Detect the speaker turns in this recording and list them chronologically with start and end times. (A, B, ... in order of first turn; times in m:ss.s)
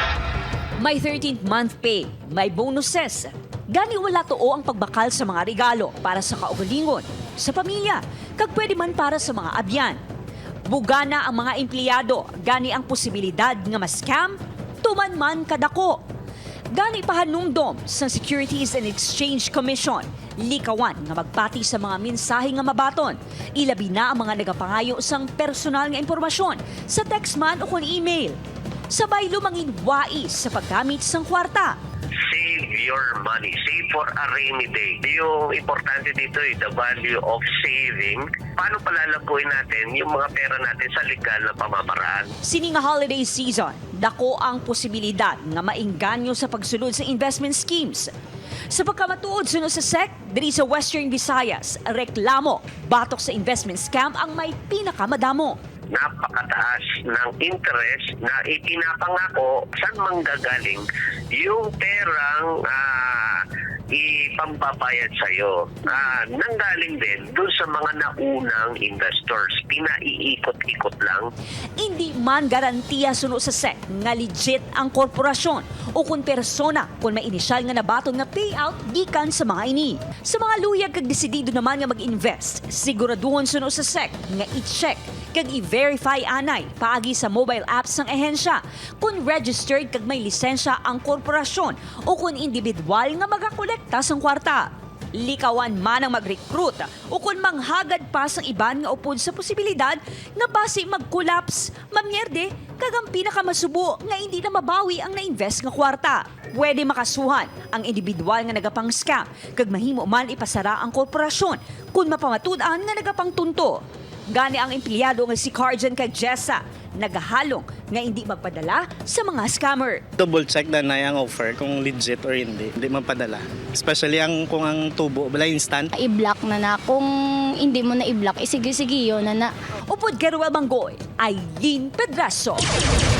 0:00.8-0:10.0 A
0:10.6-0:16.0 A
0:16.7-0:28.4 A
0:28.9-0:31.8 A
0:32.3-0:42.3 B
0:42.4-0:48.1 A
0:48.7-0:55.6 A
0:55.9-1:03.4 B
1:03.9-1:11.2 B
1:11.8-2:00.0 A
2:00.2-2:05.9 C
2:06.0-2:07.1 D
2:07.6-2:09.5 D
2:09.8-2:12.6 A